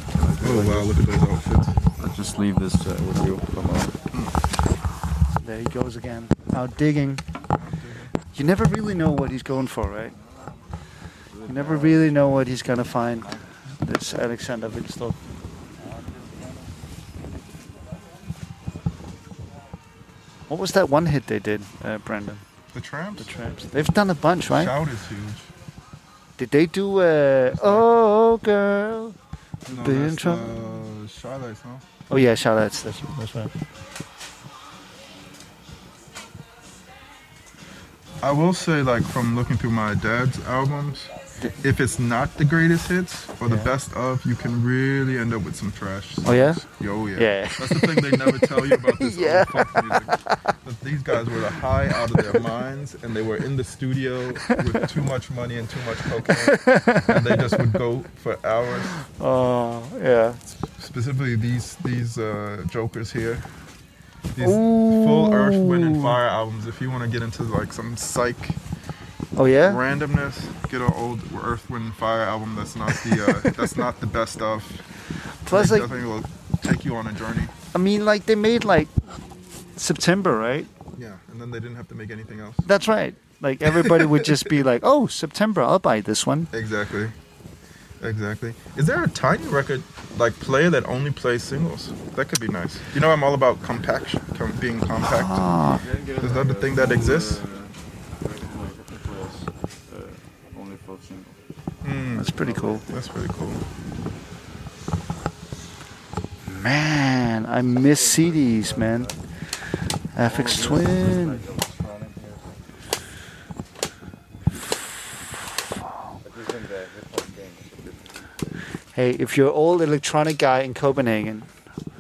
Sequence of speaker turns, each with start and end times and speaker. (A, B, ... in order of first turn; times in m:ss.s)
0:00.2-0:01.0 A
0:00.4-0:01.8 B
0:02.0-0:03.9 A
0:05.4-0:07.2 C
0:07.6-0:08.1 B
0:08.3-0:10.2 C
0:11.3-0:13.4 A
0:11.5-0:15.2 C
0:15.9-0:16.5 A
0:20.5-0:22.4 C
0:22.7-0:23.3 B
0:23.2-0:24.7 C
0:24.5-0:25.5 B
0:26.4-0:29.2 C
0:27.5-0:27.9 B
0:29.7-0:31.8 B
0:29.7-0:30.4 C
0:32.1-0:33.5 C
0:38.2-0:59.0 B
0:43.5-0:43.7 C
0:46.2-0:46.6 C
0:47.2-0:50.4 C
0:56.3-0:57.6 C
0:58.9-1:00.4 C
1:00.8-1:03.5 B
1:04.4-1:08.6 B
1:04.4-1:06.2 C
1:09.4-1:09.8 C
1:09.6-1:14.8 B
1:15.5-1:15.9 C
1:15.5-1:17.5 B
1:17.7-1:19.2 C
1:19.7-1:20.7 C
1:21.0-1:22.7 B
1:22.6-1:26.5 C
1:26.5-1:27.2 B
1:28.0-1:35.5 B
1:35.0-1:35.8 C
1:35.7-1:41.4 A
1:36.2-1:37.4 B
1:41.8-1:42.3 B
1:42.1-1:42.8 C
1:42.3-1:43.0 A
1:42.9-1:43.6 B
1:46.5-1:49.1 C
1:47.5-1:49.2 A
1:50.2-1:51.4 C
1:50.2-1:52.6 A
1:56.2-1:58.1 A
1:58.9-2:01.5 C